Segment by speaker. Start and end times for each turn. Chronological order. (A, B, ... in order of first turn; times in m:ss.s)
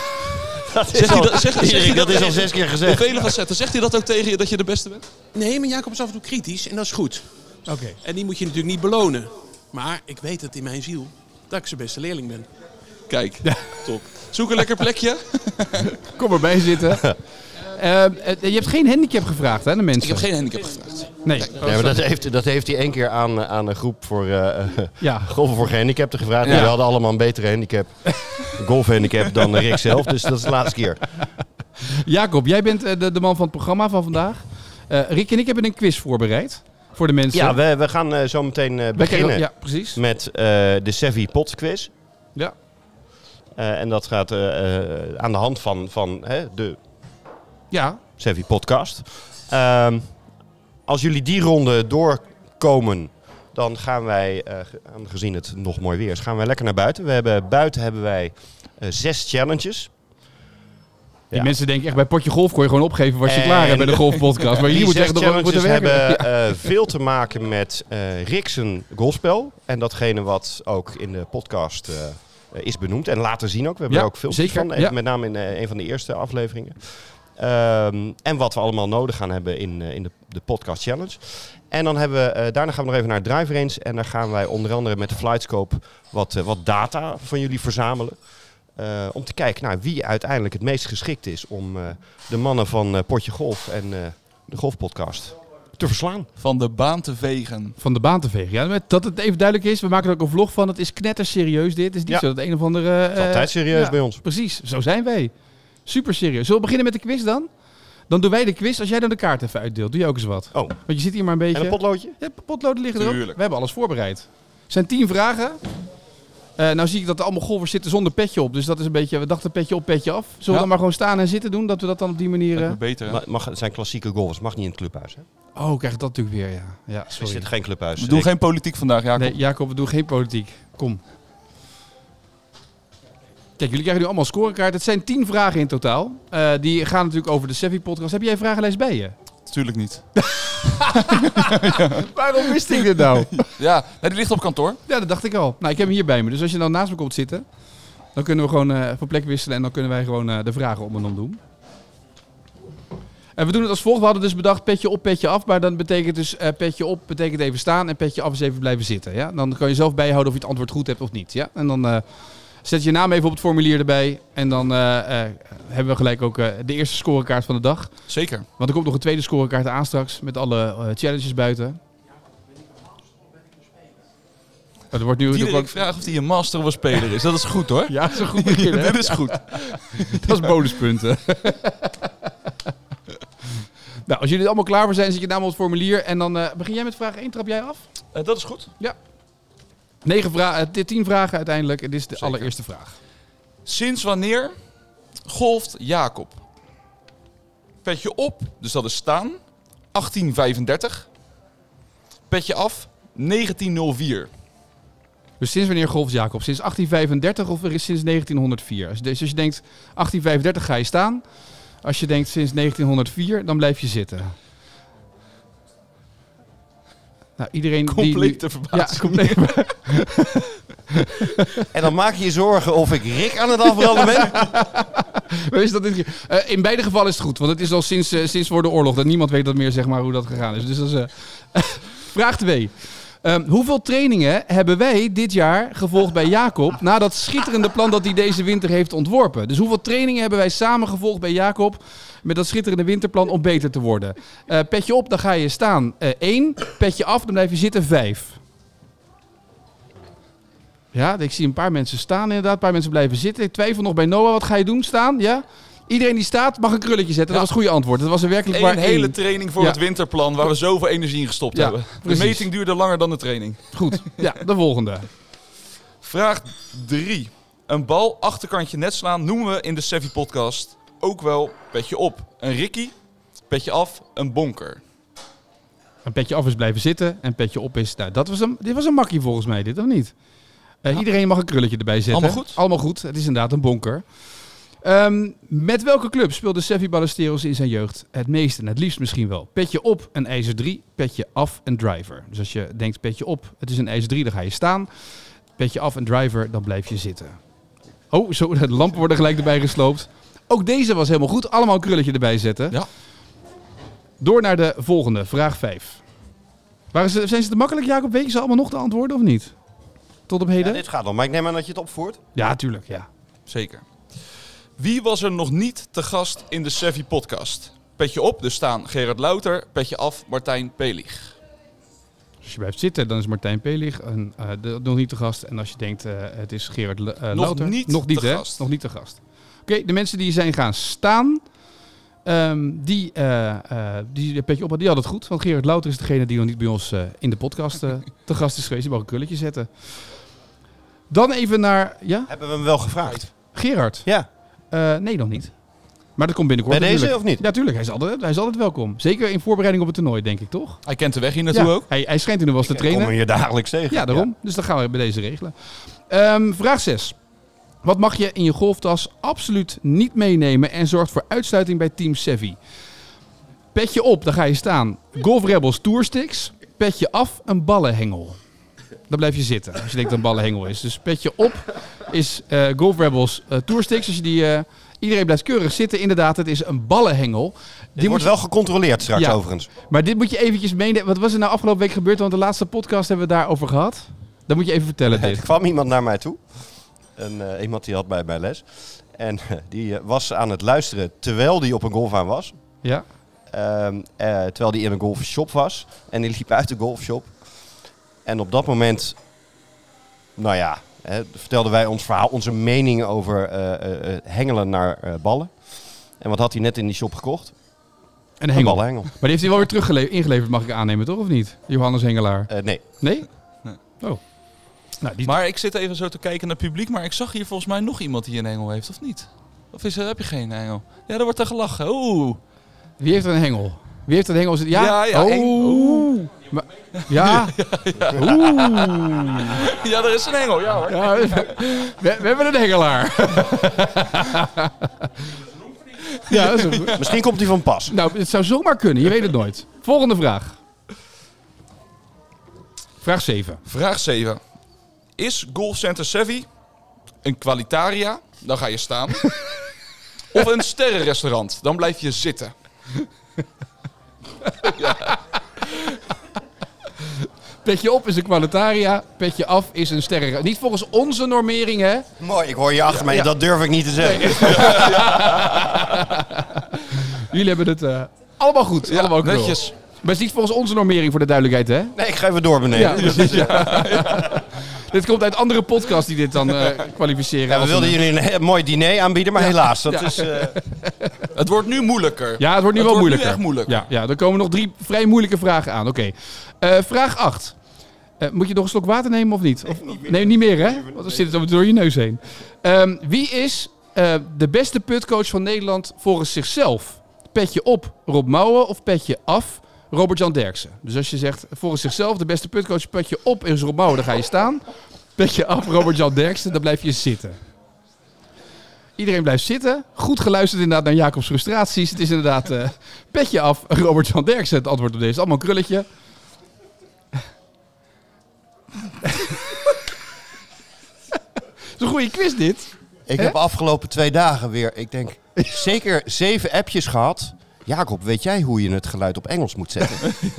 0:00.6-0:03.3 A
0:00.9-0:05.0 B
0:05.4-0:07.3 C
0:07.7-0:08.0 D
0:08.0-0:12.5 C
0:13.1-0:16.0 B
0:13.4-0:13.8 D
0:16.0-0:20.3 D
0:20.0-0:21.5 B
0:21.2-0:22.0 D
0:21.5-0:31.2 A
0:25.0-0:25.3 D
0:28.2-0:28.5 D
0:31.9-0:37.6 D
0:37.3-0:41.9 A
0:39.0-0:40.0 D
0:43.6-0:46.8 A
0:47.7-0:48.0 D
0:48.2-0:50.1 A
0:50.9-0:59.9 A
1:01.3-1:06.7 D
1:03.2-1:28.2 A
1:13.9-1:15.0 D
1:28.8-1:36.3 A
1:36.4-1:37.8 B
1:37.8-1:45.3 D
1:43.2-1:44.2 A
1:45.8-1:47.5 D
1:48.1-1:55.6 D
1:50.5-1:50.8 A
1:51.5-1:52.2 A
1:53.0-1:53.4 B
1:56.6-2:02.8 D
2:02.6-2:03.2 B
2:03.1-2:05.2 A
2:05.6-2:07.5 D
2:07.2-2:08.3 A
2:08.0-2:09.4 B
2:09.2-2:11.0 D
2:13.6-2:19.2 D
2:19.5-2:20.2 B
2:20.2-2:23.4 D
2:21.0-2:22.0 B
2:23.4-2:24.8 B
2:24.9-2:27.4 D
2:28.2-2:31.4 D
2:33.4-2:42.0 D
2:42.6-2:47.9 D
2:48.1-2:48.5 B
2:48.6-2:51.8 D
2:54.9-2:55.7 D
2:55.3-3:00.5 B
2:57.9-3:02.3 D
3:04.1-3:07.8 D
3:08.1-3:08.7 B
3:10.0-3:13.0 D
3:12.2-3:12.5 B
3:13.7-3:14.6 B
3:15.3-3:16.4 B
3:17.8-3:19.4 B
3:19.9-3:21.1 B
3:22.3-3:24.3 B
3:25.4-3:31.2 D
3:31.8-3:34.4 D
3:37.4-3:40.4 D
3:37.9-3:39.6 B
3:40.9-3:41.6 D
3:41.7-3:44.5 A
3:44.0-4:08.4 D
4:10.9-4:19.8 D
4:18.5-4:24.4 B
4:21.5-4:22.5 D
4:23.7-4:25.1 D
4:26.0-4:32.9 B
4:33.5-4:34.8 B
4:36.1-4:40.1 D
4:40.8-4:44.0 D
4:42.1-4:42.6 B
4:44.8-4:54.9 D
4:55.6-4:57.4 D
4:58.1-5:02.8 D
5:04.2-5:06.0 D
5:06.9-5:09.5 D
5:10.3-5:10.8 D
5:10.6-5:12.2 A
5:12.4-5:13.1 D
5:13.5-5:21.4 B
5:22.4-5:31.4 D
5:27.3-5:28.6 B
5:32.2-5:40.2 D
5:41.1-5:42.3 D
5:42.3-5:43.5 A
5:43.5-5:44.2 D
5:44.7-5:45.5 D
5:46.2-5:50.8 D
5:46.7-5:47.4 A
5:50.9-5:51.9 B
5:51.5-5:53.2 D
5:52.6-5:54.3 A
5:53.9-5:55.5 D
5:56.1-5:57.2 D
5:57.8-6:02.6 D
6:03.7-6:08.4 D
6:09.1-6:18.3 D
6:18.0-6:19.7 A
6:19.1-6:25.4 D
6:25.1-6:32.6 A
6:33.5-6:39.2 A
6:40.4-6:47.6 A
6:48.4-6:53.3 D
6:48.5-6:49.1 A
6:52.5-6:52.8 A
6:55.0-6:55.4 D
6:55.2-7:02.4 B
7:03.0-7:07.6 D
7:04.7-7:06.1 B
7:07.1-7:11.5 B
7:08.1-7:09.6 D
7:10.9-7:15.1 D
7:16.2-7:17.0 B
7:16.3-7:17.0 D
7:17.0-7:18.0 A
7:17.9-7:20.6 D
7:23.0-7:23.6 D
7:23.7-7:24.4 B
7:25.2-7:26.5 B
7:27.2-7:29.3 B
7:30.3-7:32.5 B
7:34.4-7:35.1 D
7:34.8-7:35.2 B
7:37.6-7:42.1 D
7:42.2-7:45.1 A
7:44.0-7:52.0 D
7:44.5-7:45.9 B
7:48.9-7:49.7 B
7:52.0-7:53.9 A
7:52.7-7:58.0 D
7:52.9-7:54.4 B
7:57.5-8:00.6 A
7:59.4-8:01.2 D
8:01.3-8:03.9 B
8:02.4-8:07.6 D
8:08.2-8:24.6 D
8:09.6-8:11.4 A
8:25.2-8:27.4 D
8:29.0-8:35.9 D
8:39.0-8:39.5 D
8:41.8-8:43.4 D
8:43.1-8:50.1 A